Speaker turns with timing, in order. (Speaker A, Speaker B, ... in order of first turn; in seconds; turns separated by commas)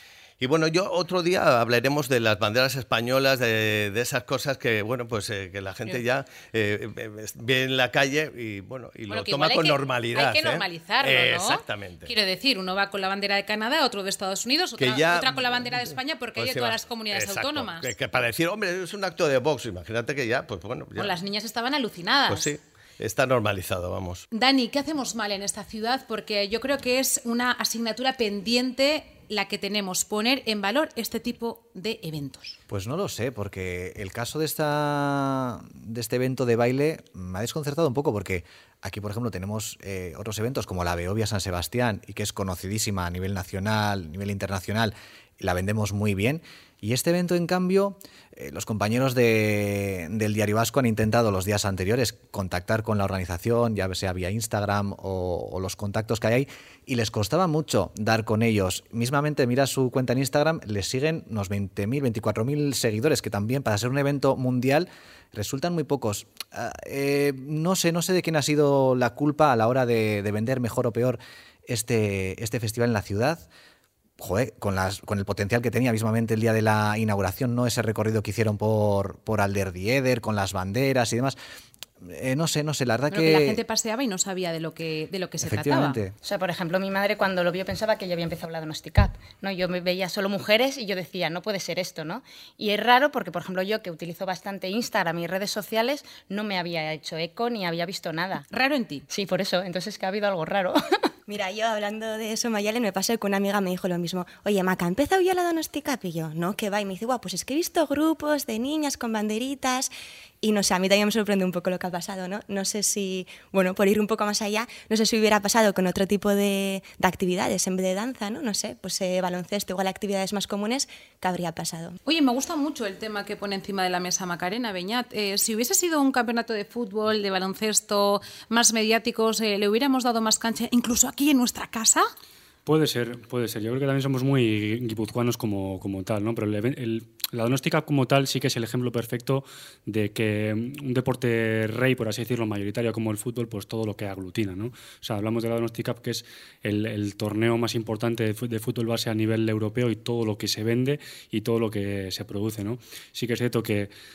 Speaker A: 0.4-12.1, Speaker B: 9.1-17.9, Speaker A: 14.8-21.1, Speaker B: 21.0-22.4, Speaker A: 22.3-24.2, Speaker B: 24.3-32.6, Speaker C: 32.7-73.5, Speaker C: 74.2-81.4, Speaker C: 82.0-83.6, Speaker B: 83.1-86.0, Speaker C: 85.4-86.1, Speaker D: 86.2-98.4, Speaker B: 98.5-99.0, Speaker D: 99.1-100.8, Speaker E: 101.3-109.9, Speaker E: 110.4-122.0, Speaker B: 122.0-132.0, Speaker F: 132.7-153.9